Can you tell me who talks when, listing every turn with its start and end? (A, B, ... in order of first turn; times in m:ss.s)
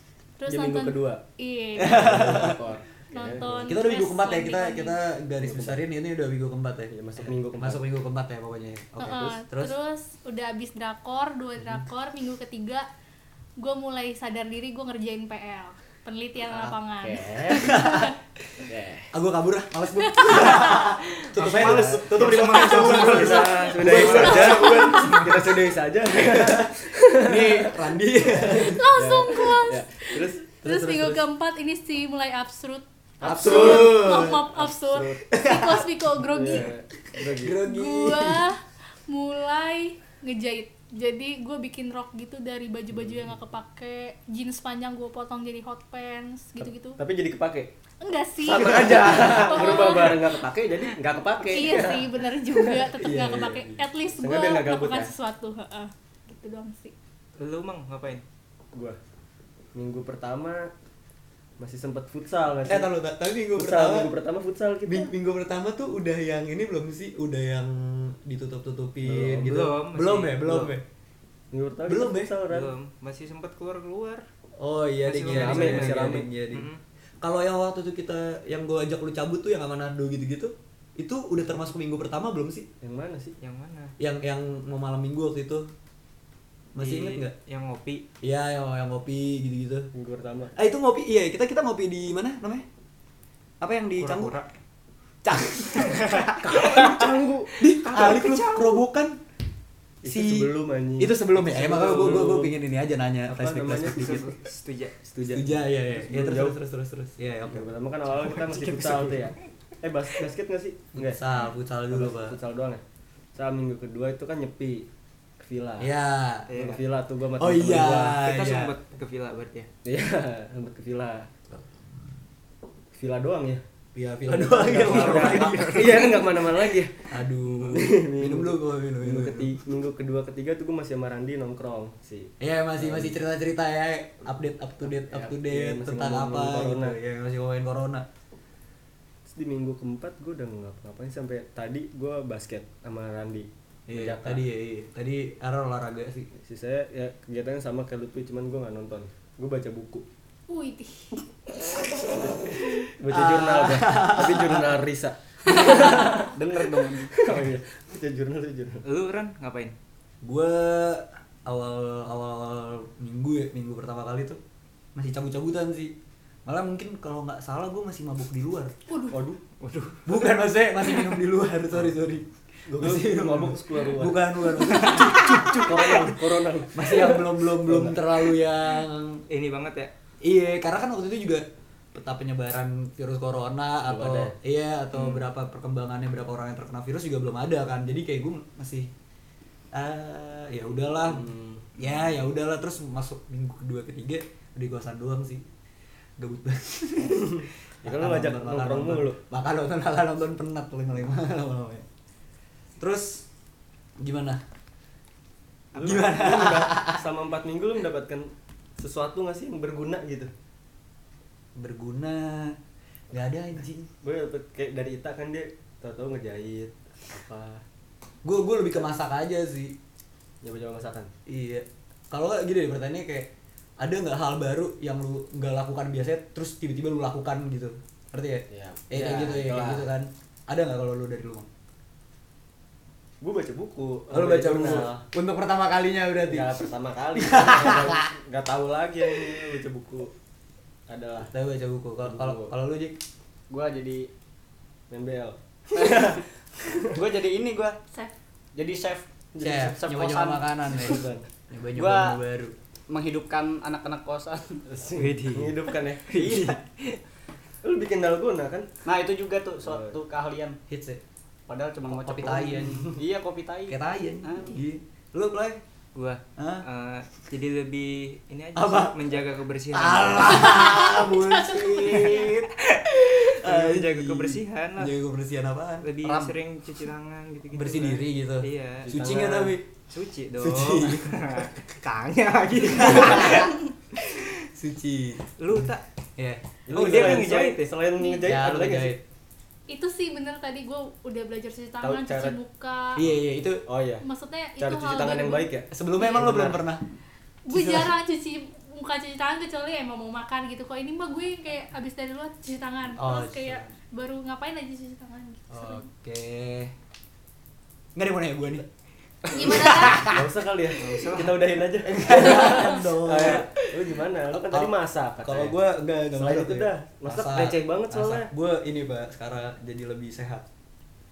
0:00.4-0:02.5 A
0:00.5-0:01.2 B
0:01.8-0:02.6 C
0:01.8-0:03.8 B
0:03.1-0:05.0 A
0:03.6-0:09.8 C
0:05.4-0:05.8 B
0:06.9-0:07.8 B
0:09.0-0:12.9 A
0:13.6-0:18.1 A
0:16.5-0:17.8 B
0:17.5-0:18.1 C
0:18.7-0:19.1 B
0:19.1-0:25.4 C
0:20.0-0:20.8 A
0:21.3-0:25.4 D
0:21.6-0:31.2 B
0:24.4-0:25.2 A
0:26.1-0:28.8 C
0:28.7-0:36.7 A
0:33.2-0:34.5 C
0:33.2-0:35.2 B
0:35.3-0:35.9 C
0:36.3-0:37.6 B
0:37.2-0:38.5 C
0:37.6-0:47.0 A
0:46.6-0:47.7 B
0:48.0-0:50.4 A
0:48.4-0:52.8 B
0:48.8-0:49.4 C
0:51.4-0:56.9 A
0:53.0-0:53.8 C
0:54.1-0:55.1 B
0:57.4-0:58.2 D
0:58.7-0:59.0 B
0:59.7-1:00.7 B
1:01.6-1:02.9 B
1:02.7-1:04.1 C
1:03.5-1:05.1 B
1:04.8-1:10.8 C
1:09.0-1:09.6 B
1:09.4-1:10.7 D
1:11.5-1:12.7 B
1:11.8-1:12.3 C
1:12.5-1:14.3 D
1:14.6-1:16.7 C
1:15.0-1:16.8 D
1:15.3-1:16.3 B
1:17.2-1:22.7 C
1:22.8-1:23.4 B
1:23.4-1:23.9 D
1:24.0-1:25.7 C
1:26.7-1:27.3 C
1:26.8-1:28.0 D
1:28.2-1:29.9 C
1:29.9-1:30.5 B
1:30.6-1:32.7 C
1:33.6-1:34.3 C
1:34.0-1:34.5 D
1:35.2-1:39.2 C
1:35.7-1:36.5 D
1:36.4-1:37.5 B
1:37.6-1:38.8 D
1:40.0-1:42.5 B
1:40.0-1:44.3 C
1:43.3-1:44.1 B
1:43.9-1:45.0 D
1:45.0-1:46.5 B
1:45.2-1:47.7 C
1:47.5-1:51.2 B
1:48.1-1:49.3 D
1:51.0-1:52.4 C
1:51.9-1:52.8 B
1:53.3-1:54.9 B
1:55.4-1:55.9 B
1:55.8-1:56.5 C
1:56.5-1:56.8 D
1:56.5-1:58.2 B
1:57.4-1:58.7 C
1:58.1-1:59.7 D
1:59.8-2:01.3 B
2:02.9-2:03.6 B
2:04.0-2:06.3 C
2:04.3-2:13.2 B
2:07.1-2:09.6 C
2:12.4-2:18.0 C
2:14.8-2:17.0 B
2:19.3-2:24.4 B
2:23.9-2:26.3 C
2:26.4-2:30.0 B
2:30.5-2:31.2 A
2:32.0-2:38.8 B
2:33.1-2:34.8 C
2:35.5-2:37.1 E
2:38.8-2:39.8 D
2:40.2-2:44.4 C
2:45.0-2:45.9 C
2:46.5-2:48.7 C
2:48.9-2:49.2 A
2:49.1-2:49.4 B
2:49.6-2:50.2 D
2:50.0-2:59.2 C
2:52.7-2:54.2 B
2:54.8-2:58.3 B
2:59.3-2:59.9 D
3:00.2-3:08.9 C
3:03.8-3:04.3 B
3:04.9-3:05.3 D
3:09.7-3:15.5 C
3:11.0-3:11.6 B
3:16.2-3:21.8 C
3:17.1-3:19.2 B
3:22.8-3:23.3 C
3:24.0-3:24.4 C
3:25.7-3:27.0 C
3:25.7-3:30.3 B
3:31.6-3:32.6 C
3:33.1-3:33.9 C
3:34.0-3:37.6 B
3:38.2-3:39.8 C
3:40.4-3:41.1 B
3:41.3-3:51.5 C
3:48.5-3:49.9 B
3:53.2-3:55.0 B
3:54.1-3:56.5 C
3:56.3-4:00.1 B
3:57.2-3:58.0 C
4:00.9-4:01.3 B
4:01.3-4:03.0 C
4:02.0-4:02.5 B
4:03.5-4:04.1 E
4:04.9-4:07.0 B
4:05.7-4:06.2 E
4:07.0-4:07.8 E
4:08.5-4:09.1 E
4:09.3-4:09.8 B
4:09.4-4:12.6 C
4:09.7-4:10.4 E
4:10.8-4:11.2 B
4:11.8-4:12.2 E
4:12.9-4:14.6 E
4:14.7-4:16.5 B
4:15.0-4:17.0 D
4:17.6-4:18.7 B
4:18.8-4:20.6 E
4:19.6-4:20.0 B
4:20.7-4:21.0 C
4:21.5-4:24.6 E
4:21.9-4:22.9 C
4:23.7-4:25.6 C
4:26.0-4:30.8 D
4:26.4-4:26.6 C
4:28.6-4:29.0 C
4:29.7-4:35.9 C
4:30.5-4:32.0 A
4:31.9-4:32.2 D
4:32.9-4:34.9 D
4:35.8-4:38.9 D
4:36.0-4:36.4 E
4:37.5-4:39.6 C
4:38.8-4:39.6 B
4:39.9-4:43.6 D
4:40.4-4:41.2 C
4:42.7-4:43.5 C
4:44.4-4:47.3 C
4:45.4-4:45.8 D
4:46.7-4:49.0 B
4:46.7-4:47.7 D
4:48.0-4:48.3 A
4:48.2-4:49.0 C
4:49.7-4:53.0 A
4:51.8-4:52.4 B
4:53.0-4:53.6 C
4:53.6-4:54.0 B
4:54.0-4:56.4 A
4:54.6-4:56.6 B
4:55.7-4:56.8 C
4:57.5-5:05.8 A
4:57.5-4:57.9 C
5:03.0-5:03.7 C
5:05.5-5:06.7 C
5:08.0-5:08.7 C
5:09.2-5:10.3 C
5:09.3-5:10.1 A
5:10.0-5:15.6 B
5:10.7-5:11.5 D
5:11.9-5:20.4 C
5:16.1-5:18.3 B